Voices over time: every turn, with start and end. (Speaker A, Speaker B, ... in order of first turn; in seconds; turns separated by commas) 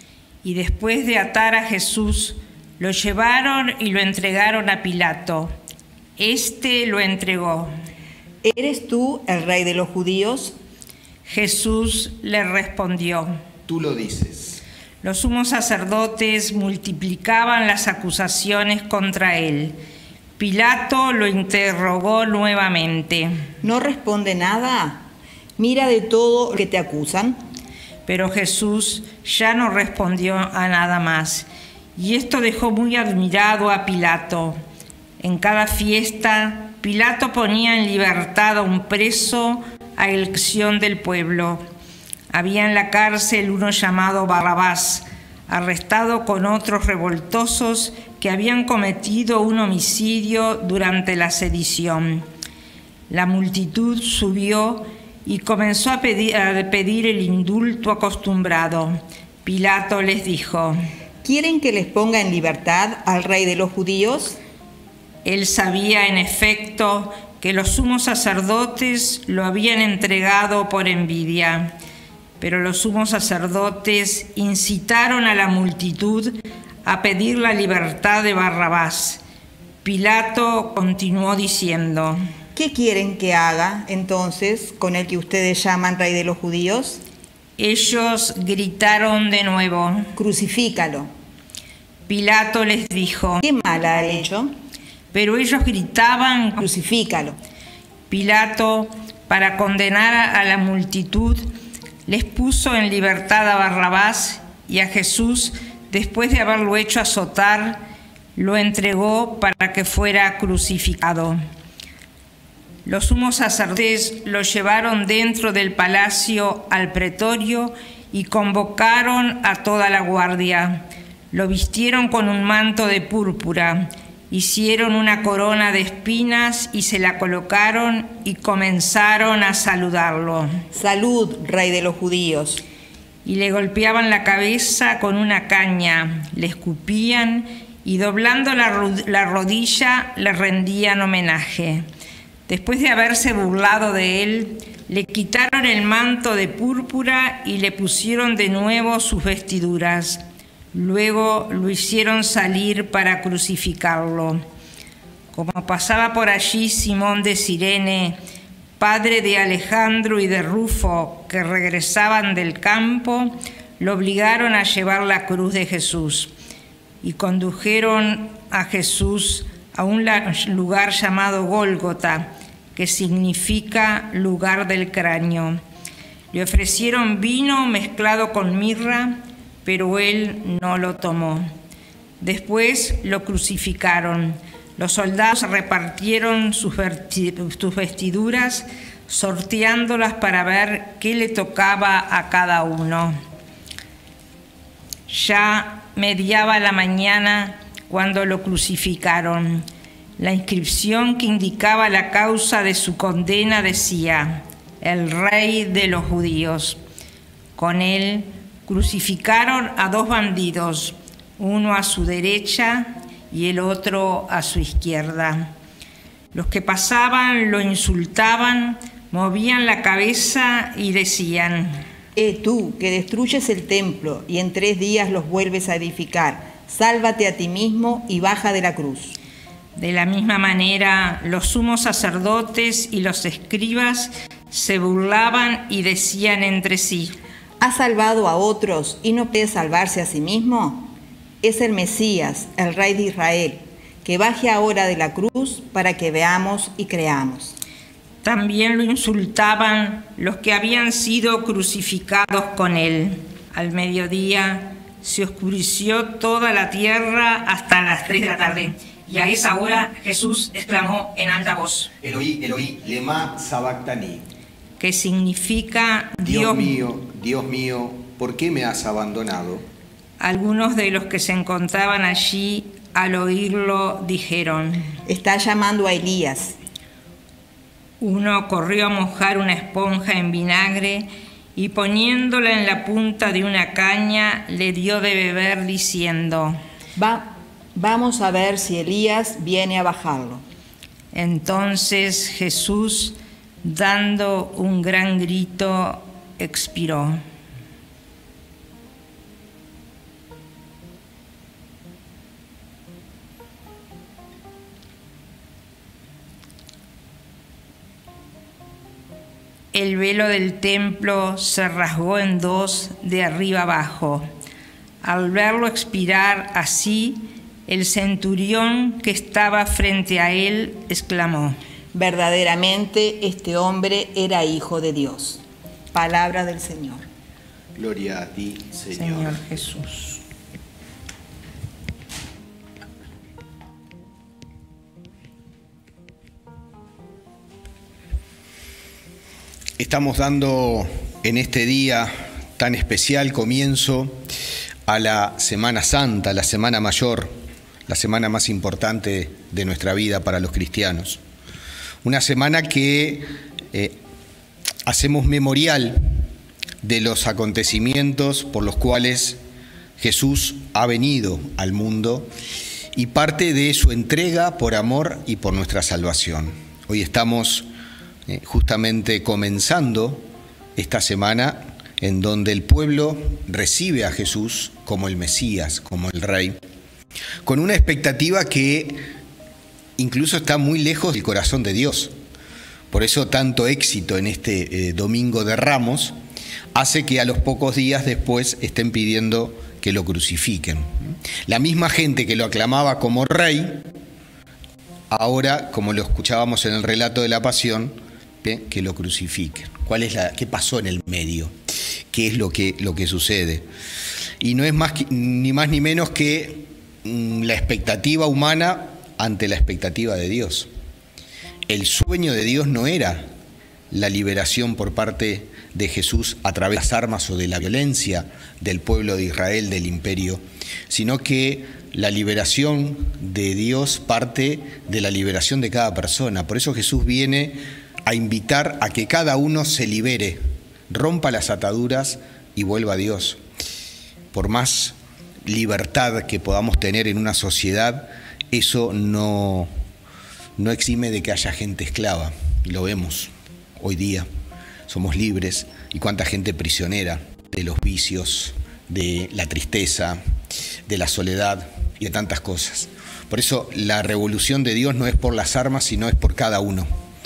Speaker A: 0.4-5.5, Speaker A: 6.2-7.7, Speaker B: 8.4-10.5, Speaker A: 11.2-13.3, Speaker C: 13.7-14.6, Speaker A: 15.0-19.7, Speaker A: 20.4-23.4, Speaker B: 23.6-25.1, Speaker B: 25.6-27.4, Speaker A: 28.1-34.6, Speaker A: 35.2-41.6, Speaker A: 42.3-52.2, Speaker A: 53.1-60.8, Speaker B: 61.2-64.4, Speaker A: 65.2-71.7, Speaker A: 72.4-79.2, Speaker A: 79.8-82.2, Speaker B: 82.5-87.0, Speaker A: 87.6-90.1, Speaker B: 90.2-91.1, Speaker A: 92.1-93.4, Speaker B: 93.4-94.5, Speaker A: 95.1-96.7, Speaker B: 96.6-97.4, Speaker A: 98.1-101.5, Speaker A: 102.1-107.8, Speaker A: 108.3-111.4, Speaker A: 112.8-130.5, Speaker B: 130.7-132.6, Speaker A: 133.2-141.8, Speaker A: 142.5-150.2, Speaker A: 150.7-154.4, Speaker A: 155.3-158.2, Speaker A: 158.8-166.3, Speaker A: 167.0-175.6, Speaker A: 176.3-181.5, Speaker A: 182.2-193.2, Speaker A: 195.1-199.7, Speaker A: 200.2-206.8, Speaker A: 207.6-215.5, Speaker A: 216.3-221.8, Speaker B: 222.2-229.2, Speaker A: 229.7-237.1, Speaker B: 237.6-247.6, Speaker A: 248.2-261.9, Speaker C: 262.0-264.2, Speaker A: 264.8-266.8, Speaker C: 266.2-269.6, Speaker A: 270.2-274.9, Speaker B: 275.1-276.6, Speaker A: 278.0-286.6, Speaker B: 287.0-290.4, Speaker A: 291.1-297.2, Speaker A: 309.7-314.2, Speaker A: 315.0-321.6, Speaker B: 321.9-327.1, Speaker C: 327.7-329.4, Speaker A: 328.9-330.2, Speaker C: 339.8-344.2, Speaker C: 344.9-347.3, Speaker C: 347.9-351.2, Speaker C: 352.0-354.0, Speaker C: 354.9-356.0, Speaker C: 356.8-359.4, Speaker C: 360.0-362.3, Speaker C: 362.9-367.7, Speaker C: 368.3-370.2, Speaker C: 370.8-376.6, Speaker C: 377.4-379.0, Speaker C: 380.0-382.1, Speaker C: 382.9-386.1, Speaker C: 386.7-390.9, Speaker C: 391.4-393.8, Speaker C: 395.1-401.5, Speaker C: 402.1-403.6, Speaker C: 404.4-410.7, Speaker C: 411.7-413.3, Speaker C: 413.9-433.4, Speaker C: 434.3-434.9, Speaker C: 435.4-439.7, Speaker C: 440.6-444.2, Speaker C: 444.9-450.2, Speaker C: 450.9-456.9